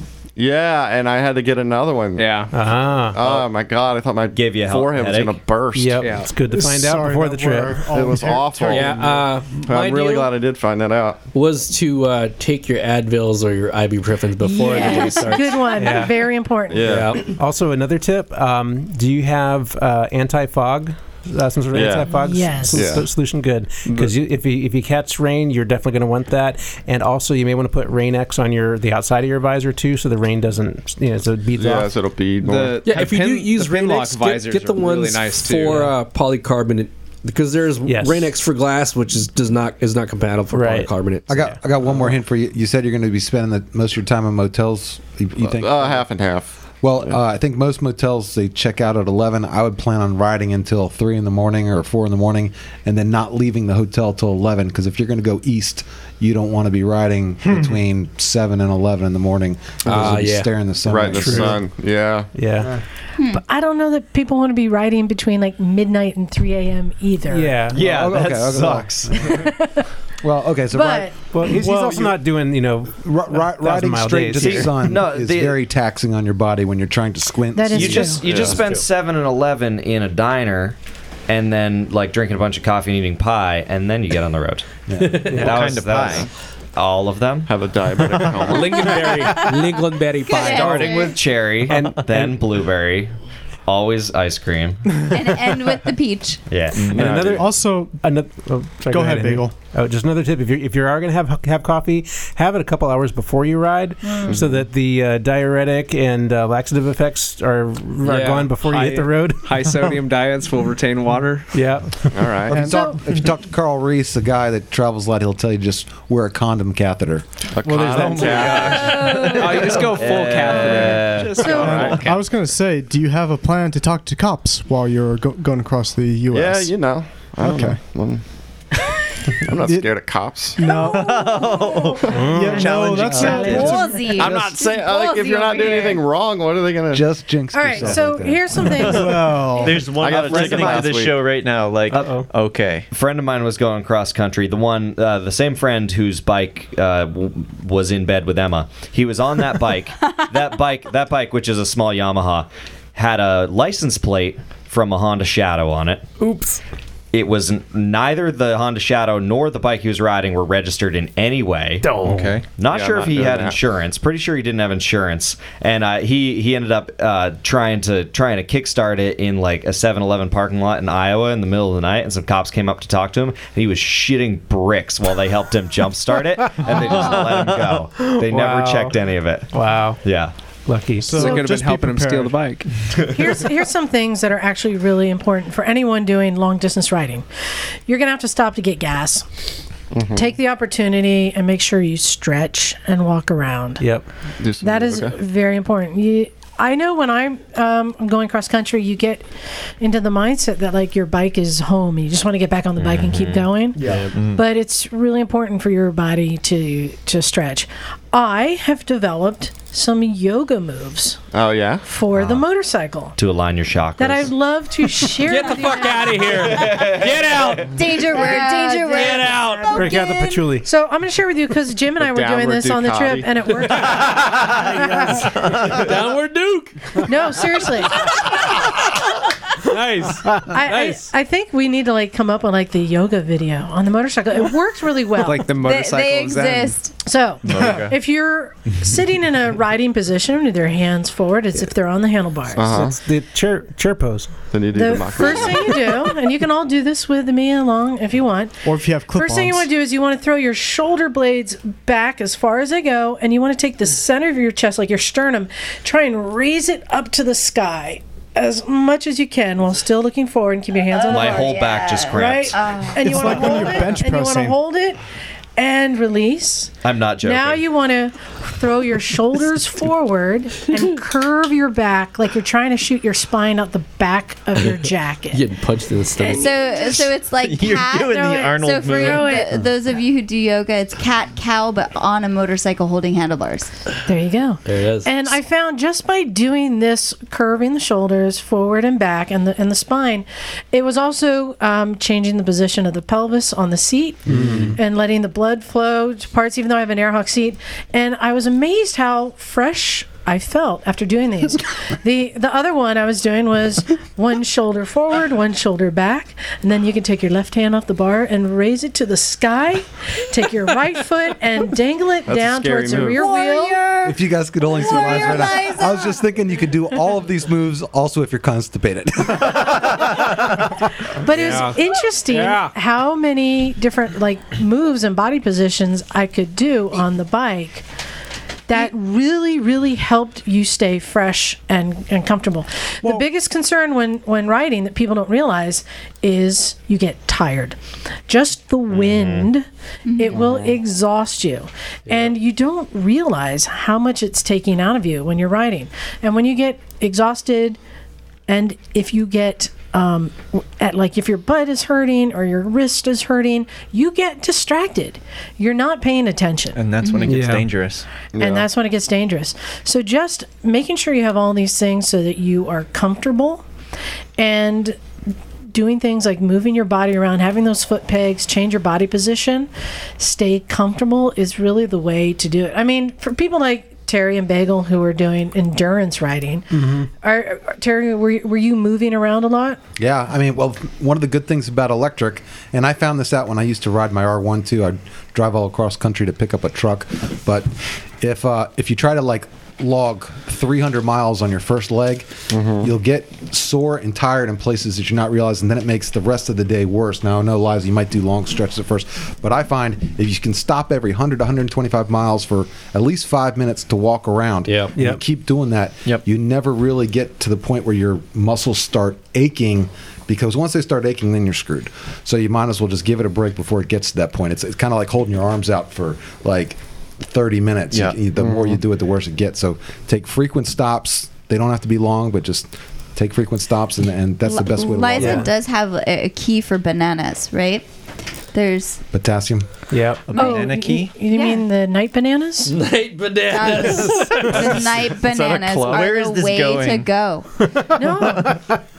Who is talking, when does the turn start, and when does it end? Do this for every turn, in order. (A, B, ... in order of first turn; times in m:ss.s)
0:00.4-0:02.5 A
0:02.2-0:02.5 B
0:02.5-0:03.2 C
0:03.1-0:06.0 A
0:04.3-0:05.4 D
0:05.7-0:07.9 C
0:06.0-0:06.3 B
0:06.5-0:09.0 E
0:07.9-0:11.2 A
0:08.7-0:10.3 F
0:11.3-0:15.8 F
0:14.4-0:16.9 G
0:14.8-0:15.2 H
0:15.8-0:16.2 C
0:16.7-0:17.3 A
0:16.8-0:17.2 F
0:17.2-0:31.9 C
0:21.7-0:23.1 A
0:22.1-0:23.0 G
0:31.6-0:32.8 A
0:32.4-0:35.9 B
0:32.8-0:41.4 F
0:37.8-0:38.3 C
0:40.5-0:41.4 C
0:41.3-0:46.0 I
0:45.4-0:47.1 A
0:46.8-1:01.6 I
0:59.8-1:00.5 F
1:00.8-1:02.3 A
1:01.1-1:01.7 C
1:02.3-1:02.8 C
1:03.2-1:03.4 H
1:03.3-1:07.6 G
1:07.3-1:07.8 C
1:07.7-1:09.4 D
1:07.7-1:09.4 I
1:09.2-1:09.8 G
1:10.2-1:12.1 I
1:10.7-1:11.2 G
1:11.3-1:14.8 C
1:11.5-1:12.1 E
1:13.0-1:18.5 I
1:14.3-1:15.6 D
1:17.5-1:18.3 G
1:17.7-1:20.8 D
1:18.2-1:18.7 A
1:21.3-1:24.6 D
1:24.9-1:26.0 I
1:25.0-1:25.4 F
1:25.3-1:27.5 D
1:25.4-1:26.3 J
1:27.4-1:29.4 A
1:28.4-1:31.1 F
1:30.2-1:31.4 H
1:30.3-1:33.1 D
1:31.7-1:32.4 C
1:33.7-1:34.9 D
1:35.1-1:36.6 H
1:36.5-1:37.2 D
1:36.8-1:37.4 A
1:36.8-1:49.7 C
1:37.4-1:38.1 E
1:38.9-1:39.6 E
1:44.0-1:44.4 G
1:48.0-1:48.5 F
1:48.6-1:51.7 B
1:51.5-1:52.4 C
1:52.1-1:52.7 A
1:52.5-1:57.2 I
1:52.5-1:52.9 E
1:52.6-1:53.0 G
1:57.5-1:59.1 A
1:57.6-1:58.7 C
1:57.8-2:02.2 B
1:58.3-1:58.7 D
1:58.5-1:59.9 H
1:59.5-2:01.5 D
2:00.5-2:01.9 G
2:01.5-2:02.0 A
2:01.6-2:06.7 E
2:01.8-2:02.0 J
2:06.3-2:08.2 A
2:07.4-2:07.8 E
2:09.4-2:10.6 A
2:09.6-2:09.9 E
2:10.6-2:11.1 E
2:10.6-2:11.9 G
2:10.8-2:14.6 J
2:12.0-2:12.4 A
2:12.1-2:12.6 C
2:12.2-2:13.9 E
2:12.5-2:14.2 G
2:13.0-2:17.0 A
2:13.1-2:16.0 H
2:16.9-2:18.7 I
2:17.5-2:19.8 G
2:18.8-2:22.9 J
2:18.9-2:19.8 E
2:19.9-2:21.2 A
2:20.1-2:21.1 D
2:22.0-2:22.2 C
2:22.9-2:36.1 D
2:36.2-2:36.6 F
2:37.1-2:42.0 D
2:42.0-2:42.5 J
2:42.6-3:00.3 D
2:42.6-2:43.6 A
2:56.6-2:57.4 H
2:58.0-2:59.0 C
2:59.5-3:00.0 C
3:00.6-3:01.3 C
3:01.0-3:02.5 E
3:01.1-3:02.7 B
3:03.1-3:07.2 G
3:07.8-3:09.2 G
3:09.9-3:10.3 A
3:10.1-3:13.8 G
3:13.8-3:14.0 C
3:14.4-3:15.1 A
3:14.6-3:19.2 G
3:19.8-3:31.2 G
3:22.8-3:23.5 D
3:23.8-3:24.1 F
3:24.1-3:24.4 J
3:31.3-3:31.8 A
3:31.8-3:33.1 G
3:32.1-3:32.4 D
3:33.2-3:34.3 D
3:34.0-3:36.6 G
3:35.2-3:38.2 F
3:36.4-3:37.6 D
3:37.6-3:40.0 H
3:37.8-3:45.5 G
3:38.9-3:39.8 F
3:39.7-3:40.6 C
3:42.0-3:43.3 A
3:43.7-3:47.4 F
3:47.0-3:48.0 G
3:47.9-3:48.9 F
3:49.6-3:51.1 F
3:50.5-3:55.5 G
3:55.2-3:56.8 B
3:55.5-3:56.9 H
3:57.0-4:02.9 G
3:57.4-3:58.0 J
4:02.5-4:03.0 A
4:02.7-4:04.3 C
4:04.5-4:05.9 A
4:04.7-4:25.0 G
4:08.6-4:09.7 E
4:20.9-4:23.9 H
4:21.1-4:22.7 D
4:23.0-4:24.6 E
4:25.6-4:35.4 G
4:26.8-4:27.6 D
4:35.3-4:36.5 F
4:36.2-4:36.9 G
4:36.3-4:43.7 H
4:37.0-4:39.7 J
4:38.1-4:39.5 G
4:44.0-5:13.8 G
4:44.6-4:45.3 F
4:54.3-4:54.7 F
5:12.3-5:13.2 A
5:12.9-5:16.2 H
5:14.0-5:20.8 I
5:21.2-5:27.8 G
5:21.3-5:22.7 F
5:28.7-5:39.6 G
5:38.9-5:39.5 D
5:40.0-5:40.7 H
5:40.2-5:47.8 G
5:42.1-5:42.3 F
5:48.5-5:56.8 G
5:56.7-5:58.0 J
5:57.2-5:57.6 C
5:58.3-5:58.7 A
5:58.4-6:03.6 G
6:04.4-6:05.0 G
6:05.7-6:19.8 G
6:16.7-6:17.1 C
6:20.0-7:05.5 I
6:32.5-6:32.9 A
6:44.7-6:44.9 F
6:57.9-6:58.8 J
7:04.5-7:07.8 H
7:08.5-7:09.0 H
7:09.1-7:09.7 I
7:09.9-7:10.3 C
7:10.3-7:11.2 J
7:10.3-7:12.8 G
7:10.4-7:10.6 H
7:11.3-7:11.6 H
7:12.6-7:14.8 F
7:13.5-7:17.4 H
7:14.6-7:17.1 J
7:17.9-7:18.6 G